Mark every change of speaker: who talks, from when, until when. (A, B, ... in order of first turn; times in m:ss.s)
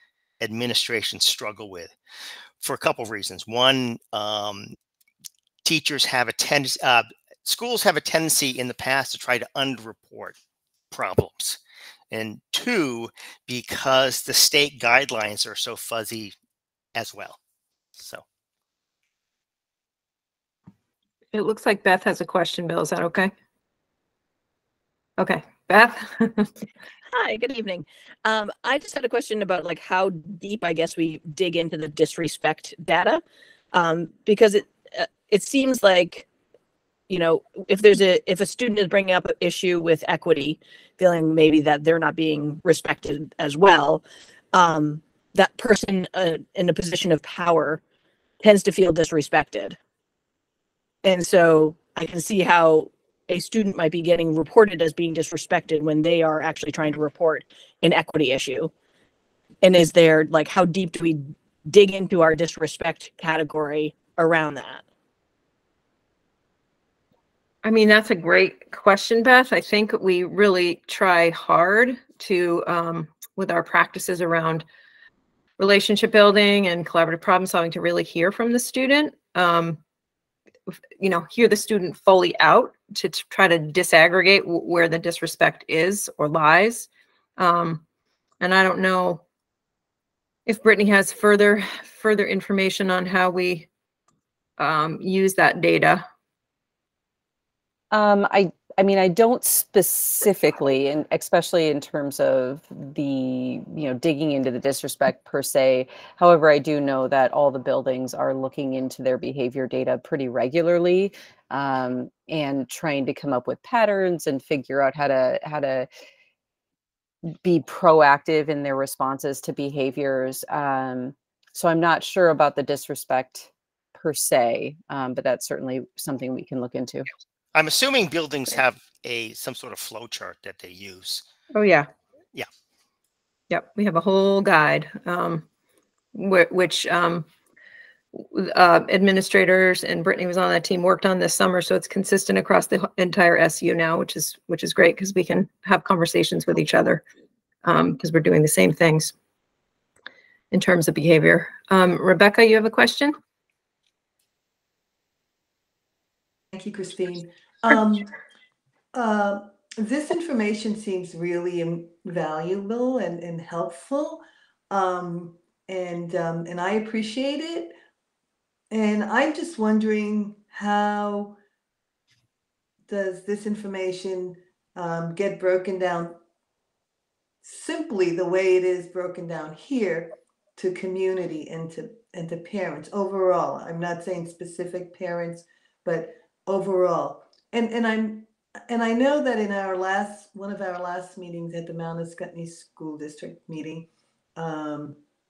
0:00.4-0:02.0 A
0:02.6-0:04.8 A
0:05.6-0:10.4 A
0:10.9-0:11.6 A
0:12.1-0:16.3 A
0:16.9-0:17.4 A
0:18.0-0:18.2 A
0:21.3-0:23.3 B
0:25.2-0:26.5 B
0:27.1-0:33.2 C
0:33.7-0:36.3 C
0:37.1-0:47.8 C
0:48.4-0:49.8 C
0:51.0-0:58.7 C
0:59.6-1:04.8 C
1:07.6-1:14.6 B
1:15.6-1:19.8 B
1:21.0-1:27.8 B
1:28.4-1:29.2 B
1:30.4-1:33.7 B
1:34.6-1:36.0 B
1:37.9-1:55.9 D
1:57.4-2:07.1 D
2:07.5-2:11.2 A
2:11.5-2:11.9 B
2:13.5-2:15.4 B
2:16.1-2:17.3 B
2:18.1-2:27.0 B
2:27.6-2:29.1 B
2:30.5-2:33.1 B
2:36.5-2:38.1 E
2:38.9-2:47.7 E
2:48.7-2:51.4 E
2:52.9-2:56.2 E
2:57.4-3:15.0 E